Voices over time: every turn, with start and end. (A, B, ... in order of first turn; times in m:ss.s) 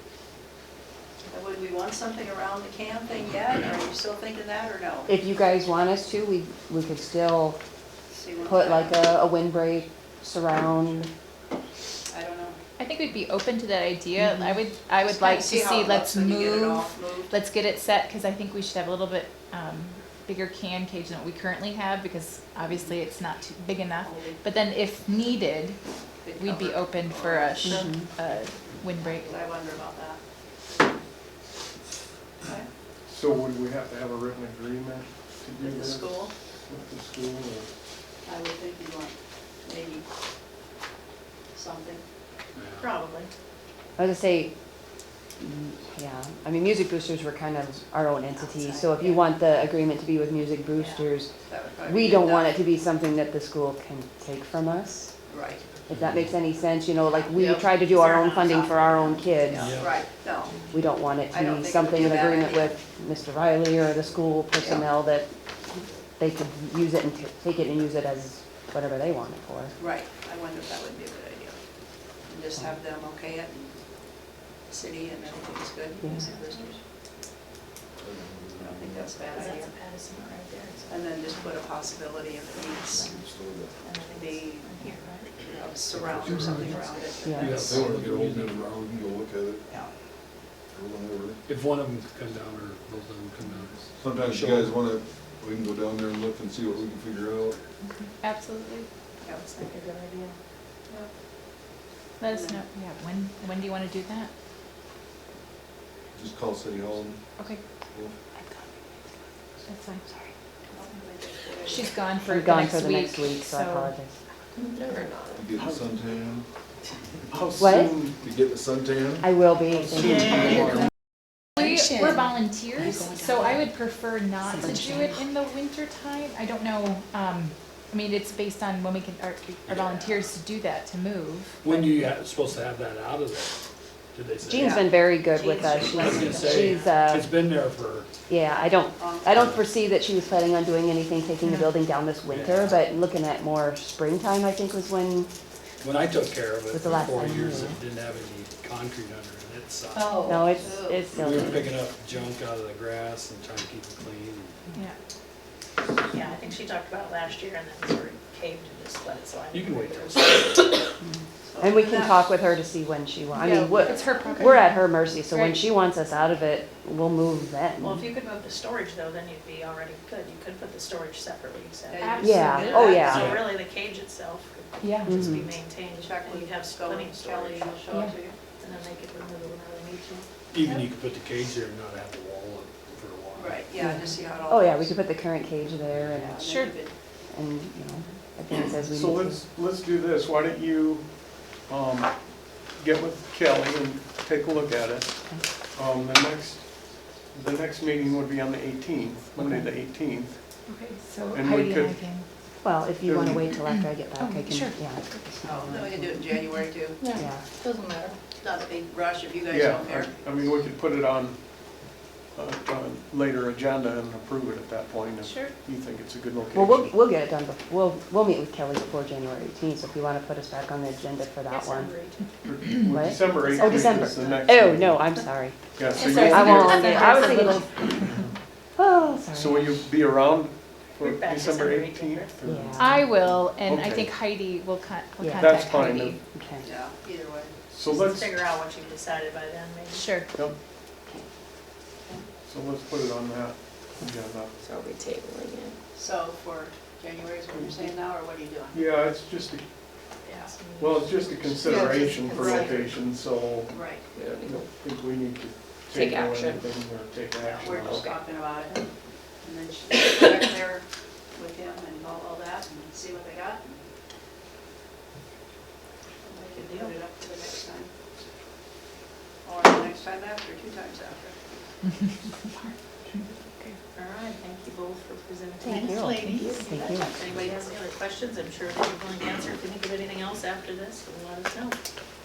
0:01.2-0:05.1 A
0:05.1-0:07.6 B
0:08.1-0:09.0 A
0:08.4-0:11.1 B
0:12.1-0:12.6 A
0:12.8-0:25.8 C
0:14.2-0:14.6 B
0:15.0-0:17.3 A
0:24.0-0:24.4 A
0:26.2-0:27.9 A
0:26.4-0:29.4 C
0:27.6-0:28.0 B
0:29.0-0:30.2 A
0:33.1-0:37.7 D
0:35.6-0:36.3 A
0:38.2-0:40.0 A
0:41.5-0:42.0 A
0:42.6-0:42.9 E
0:42.8-0:43.3 F
0:44.0-0:44.5 B
0:45.4-0:51.3 B
0:48.3-0:49.3 A
0:51.4-0:52.6 A
0:51.8-0:55.1 B
0:55.3-0:55.6 A
0:55.9-0:59.7 B
0:55.9-0:56.3 E
0:57.3-1:00.6 A
0:59.5-1:00.0 E
1:00.7-1:05.3 B
1:01.3-1:02.7 A
1:04.6-1:04.8 A
1:06.2-1:09.7 B
1:09.8-1:11.6 A
1:12.3-1:13.8 A
1:14.7-1:16.8 A
1:15.2-1:15.5 F
1:16.0-1:16.3 B
1:16.1-1:16.7 F
1:18.0-1:19.0 G
1:18.5-1:19.7 A
1:19.3-1:21.6 F
1:20.9-1:23.2 A
1:22.9-1:23.7 G
1:23.8-1:25.5 F
1:24.1-1:24.8 A
1:25.4-1:27.4 A
1:25.9-1:26.5 G
1:26.4-1:26.8 E
1:26.7-1:27.0 F
1:27.2-1:27.6 B
1:27.3-1:28.8 E
1:27.6-1:29.7 G
1:30.7-1:31.4 G
1:31.5-1:34.8 E
1:34.0-1:37.6 G
1:37.9-1:38.9 C
1:39.4-1:40.4 F
1:42.2-1:44.3 C
1:42.3-1:42.6 A
1:46.1-1:47.2 G
1:49.6-1:50.2 C
1:50.7-1:51.8 A
1:51.6-1:53.9 C
1:52.2-1:54.2 B
1:54.7-1:55.4 H
1:55.4-1:56.5 G
1:55.6-1:56.0 D
1:57.3-1:58.2 D
1:57.6-1:57.9 B
1:58.2-1:59.3 G
1:59.2-2:00.6 B
1:59.8-2:00.8 D
2:00.0-2:00.5 E
2:01.6-2:12.0 C
2:11.6-2:13.6 E
2:14.1-2:14.8 E
2:14.5-2:17.3 B
2:14.5-2:14.9 A
2:15.4-2:16.9 F
2:15.9-2:18.1 E
2:18.3-2:25.3 B
2:19.0-2:19.4 A
2:19.3-2:19.6 E
2:21.4-2:21.7 C
2:22.3-2:22.8 E
2:25.8-2:30.4 E
2:26.7-2:27.8 B
2:30.2-2:31.7 B
2:30.6-2:31.0 A
2:31.1-2:34.6 E
2:36.1-2:40.7 F
2:39.5-2:40.8 E
2:41.5-2:42.4 A
2:41.6-2:48.1 B
2:43.3-2:45.6 C
2:43.9-2:44.3 F
2:47.8-2:58.0 F
2:51.9-2:53.2 A
2:52.0-2:53.0 C
2:52.2-2:53.3 B
2:53.0-2:53.6 E
2:54.8-2:55.3 C
2:55.0-2:55.5 B
2:56.0-2:58.4 A
2:57.9-2:58.1 C
2:58.6-3:00.3 F
3:00.5-3:03.6 E
3:03.4-3:05.0 A
3:03.8-3:06.7 B
3:06.2-3:06.9 A
3:06.4-3:06.7 C
3:07.3-3:09.4 B
3:08.9-3:20.7 D
3:19.4-3:19.7 B
3:20.6-3:22.3 C
3:21.3-3:22.0 D
3:22.6-3:26.3 B
3:23.0-3:23.4 D
3:23.6-3:24.8 C
3:25.4-3:27.0 A
3:27.1-3:27.4 B
3:28.4-3:30.4 A
3:29.5-3:37.0 D
3:36.5-3:41.9 B
3:41.5-3:42.2 F
3:42.4-3:45.2 D
3:42.9-3:47.8 B
3:43.3-3:44.6 F
3:45.7-3:47.4 D
3:45.9-3:48.2 C
3:47.0-3:47.2 F
3:48.0-3:48.3 D
3:48.8-3:49.5 B
3:49.1-3:49.6 C
3:49.3-3:54.2 D
3:51.0-3:52.4 F
3:52.4-3:53.1 B
3:52.8-3:56.2 C
3:55.2-3:56.7 B
3:55.3-3:56.2 D
3:56.6-3:57.5 A
3:57.7-3:58.4 D
3:57.9-4:00.0 F
3:59.9-4:00.3 C
4:02.4-4:04.6 D
4:04.6-4:05.8 H
4:05.9-4:08.8 A
4:07.5-4:07.8 D
4:08.7-4:09.6 D
4:10.2-4:12.9 F
4:10.8-4:18.1 D
4:11.6-4:12.8 A
4:13.7-4:14.1 A
4:14.1-4:14.6 H
4:15.9-4:16.6 H
4:17.4-4:18.8 A
4:19.4-4:23.8 A
4:26.3-4:27.9 A
4:26.4-4:27.0 F
4:29.4-4:31.4 A
4:32.4-4:33.8 C
4:33.9-4:41.8 F
4:35.6-4:37.2 B
4:35.7-4:36.2 A
4:36.1-4:36.7 C
4:37.2-4:37.7 A